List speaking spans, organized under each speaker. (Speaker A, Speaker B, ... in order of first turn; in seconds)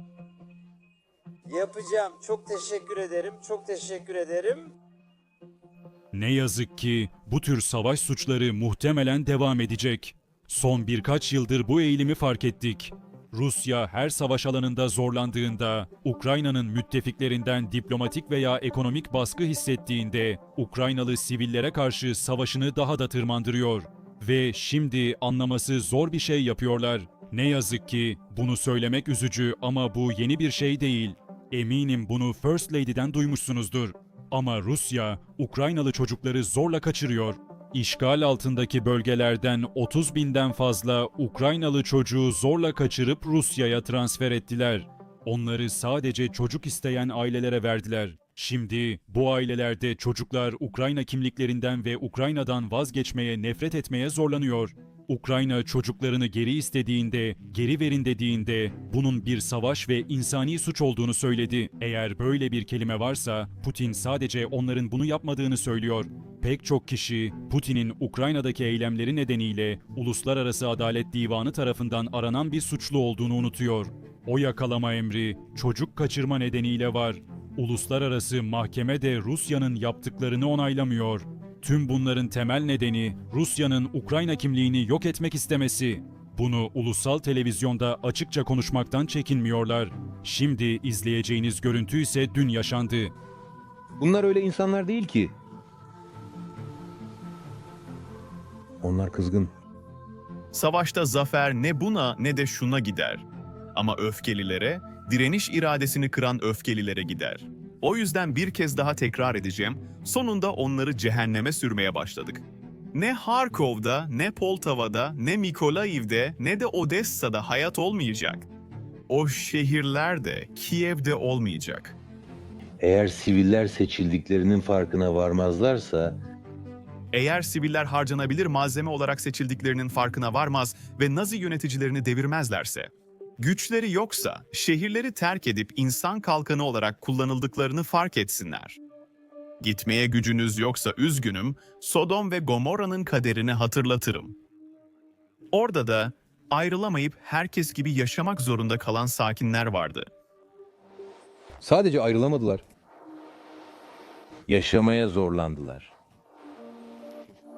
Speaker A: 1.5-4.4
Speaker B: 6.1-93.1
Speaker C: 94.0-95.3, 98.8-99.5, 122.8-126.2, 151.6-152.6, 154.5-155.9
Speaker D: 100.5-103.2, 103.8-112.4, 112.9-118.4, 119.1-121.9, 127.1-132.9, 133.4-138.8, 139.6-144.3, 145.5-150.0